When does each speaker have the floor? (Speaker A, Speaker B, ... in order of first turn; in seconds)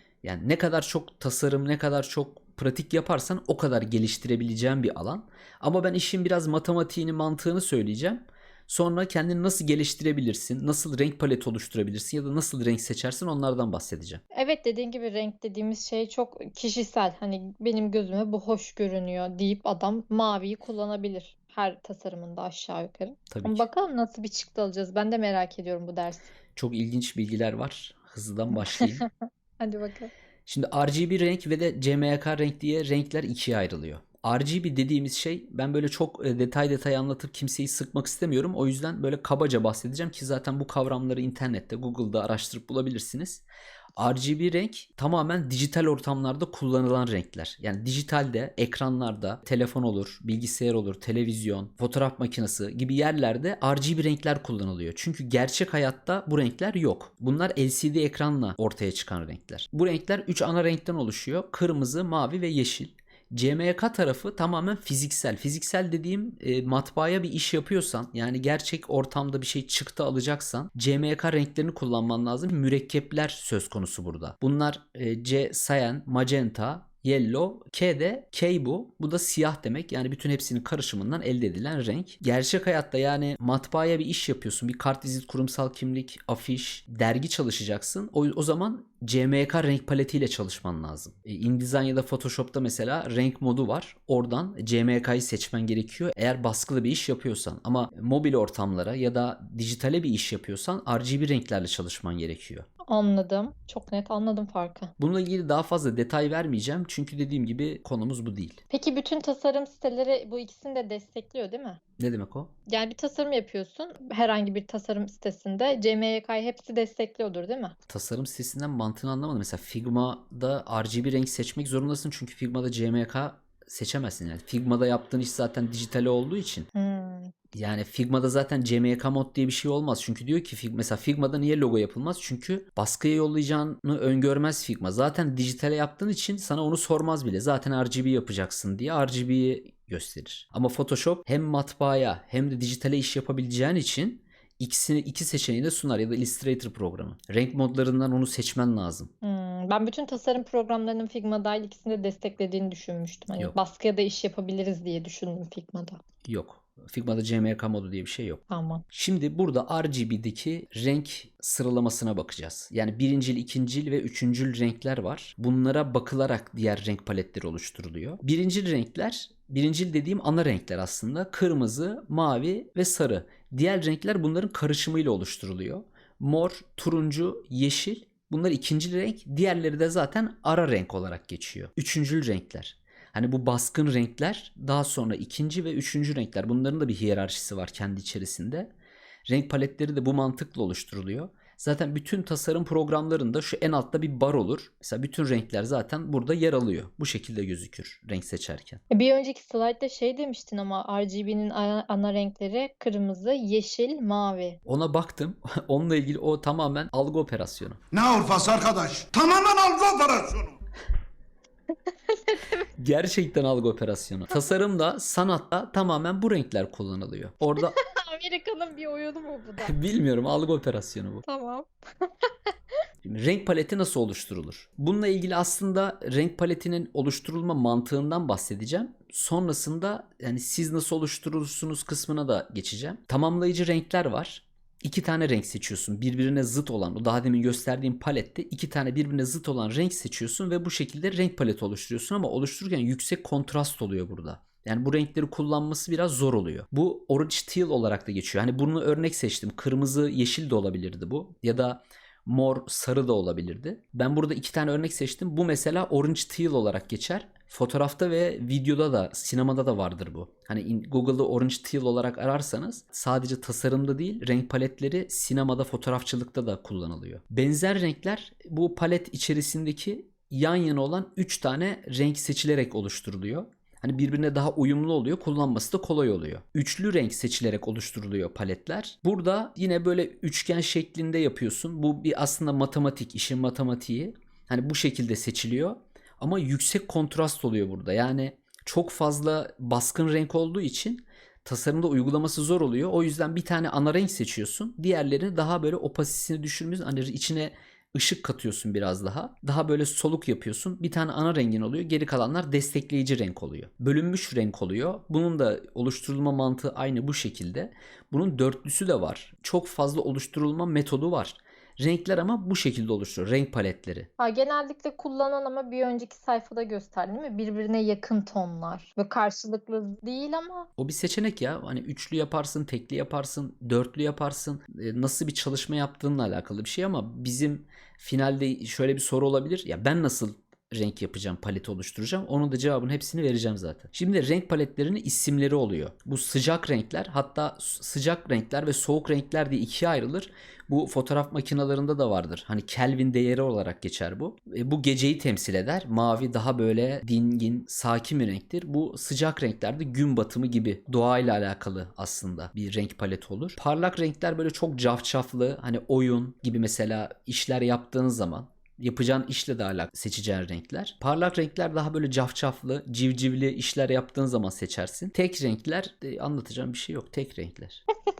Speaker A: 0.2-14.2, 23.3-23.7, 26.6-29.1, 30.5-43.4, 44.0-102.7, 105.0-108.6, 112.0-112.5, 117.9-126.7, 127.5-149.1, 156.3-188.7, 189.3-198.8, 204.7-207.8, 212.8-217.8, 219.6-221.2, 223.0-314.1, 320.8-367.8
Speaker B: 14.3-26.3, 28.5-29.1, 29.6-30.1, 102.9-104.9, 108.7-111.8, 112.7-117.8, 126.8-127.3, 149.2-156.0, 158.5-158.8, 198.9-204.6, 212.1-212.7, 217.6-219.8, 221.3-222.3, 314.2-320.7
Speaker C: 207.9-210.6